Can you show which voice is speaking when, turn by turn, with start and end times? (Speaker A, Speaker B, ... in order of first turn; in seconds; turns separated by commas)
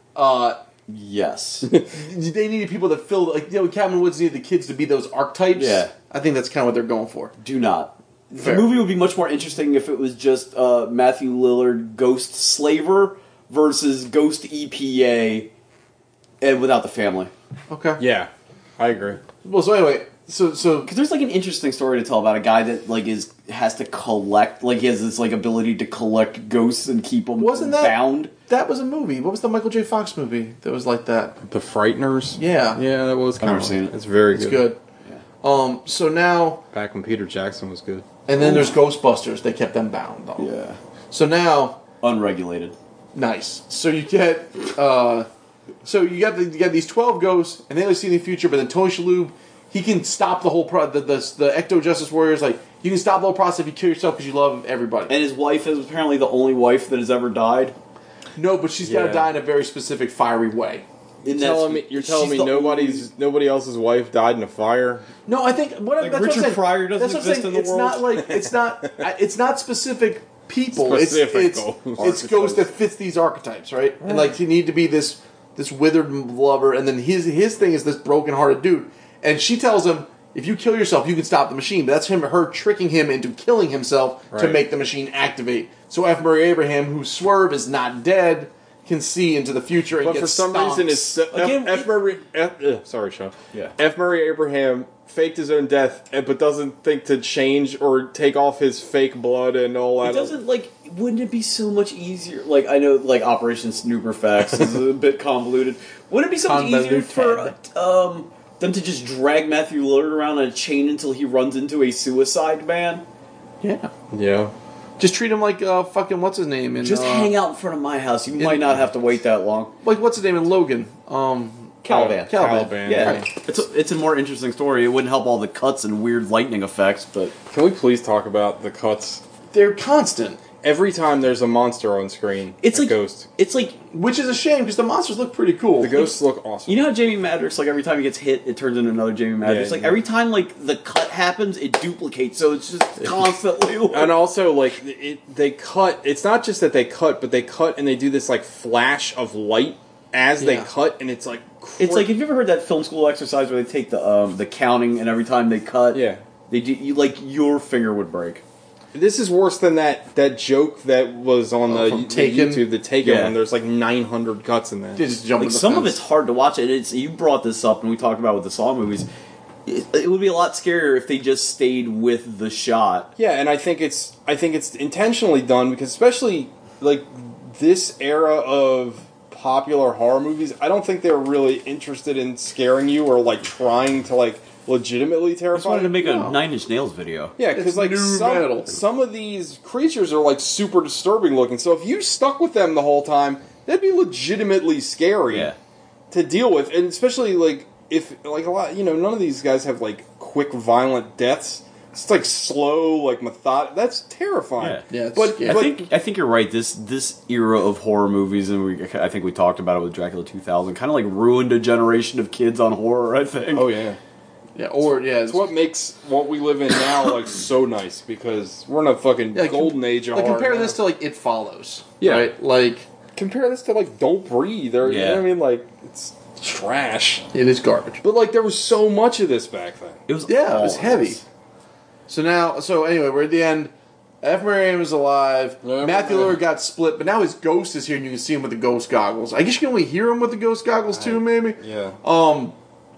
Speaker A: 0.1-0.6, Speaker B: 0.9-1.7, Speaker A: 1.8-7.3, Speaker B: 5.5-5.9, Speaker B: 7.4-15.5, Speaker A: 8.3-8.8, Speaker B: 16.4-17.3, Speaker A: 17.7-18.0, Speaker C: 18.0-19.2, Speaker A: 19.4-20.9, Speaker B: 20.9-28.3, Speaker A: 27.4-31.4, Speaker C: 31.4-34.7, Speaker A: 32.4-32.8, Speaker B: 33.4-33.9, Speaker A: 34.3-34.8, Speaker A: 35.4-36.6, Speaker C: 36.7-38.0, Speaker A: 38.3-40.5, Speaker B: 38.4-38.6, Speaker B: 40.4-40.8, Speaker A: 41.1-41.8, Speaker B: 42.0-42.8, Speaker A: 43.1-45.3, Speaker A: 45.8-55.2, Speaker B: 55.1-57.8, Speaker A: 58.4-60.8, Speaker C: 58.8-59.3, Speaker C: 61.2-65.1, Speaker B: 61.2-63.1, Speaker A: 65.2-91.2, Speaker B: 66.0-68.1, Speaker C: 70.7-72.2, Speaker B: 72.0-72.6, Speaker C: 84.3-84.6, Speaker C: 90.0-100.4, Speaker B: 91.3-91.9, Speaker B: 100.0-113.0, Speaker A: 106.4-107.5, Speaker A: 113.6-113.9, Speaker C: 114.1-114.5, Speaker A: 115.0-117.3, Speaker B: 116.8-119.7, Speaker A: 118.4-118.8, Speaker A: 119.8-123.3, Speaker B: 121.8-127.3, Speaker C: 121.9-123.3, Speaker C: 127.5-129.2, Speaker A: 129.5-130.4, Speaker C: 130.6-133.3, Speaker B: 132.6-133.8, Speaker A: 133.9-136.1, Speaker C: 135.8-136.9, Speaker B: 136.7-144.2, Speaker C: 139.4-140.0, Speaker C: 143.9-152.2, Speaker A: 150.4-150.7, Speaker B: 151.8-158.4, Speaker C: 155.9-156.2, Speaker C: 158.9-165.0, Speaker A: 161.7-162.7, Speaker B: 163.0-163.4, Speaker A: 164.9-166.0, Speaker B: 165.4-169.1, Speaker B: 169.7-173.1, Speaker C: 173.2-186.0, Speaker B: 185.5-187.3, Speaker A: 185.9-186.4, Speaker C: 187.4-195.5, Speaker A: 187.5-188.8, Speaker B: 195.3-195.6, Speaker C: 196.1-205.9, Speaker B: 204.6-204.9, Speaker A: 204.9-205.7, Speaker B: 205.4-213.7, Speaker C: 213.5-214.0, Speaker A: 214.6-215.5, Speaker C: 215.2-220.8, Speaker A: 219.3-222.9, Speaker C: 222.0-222.3, Speaker C: 223.2-227.3, Speaker B: 224.8-225.2, Speaker A: 227.3-228.0, Speaker C: 228.0-230.0, Speaker B: 230.1-231.2, Speaker A: 230.3-231.2, Speaker A: 232.1-242.6, Speaker C: 235.6-236.4, Speaker C: 240.9-242.0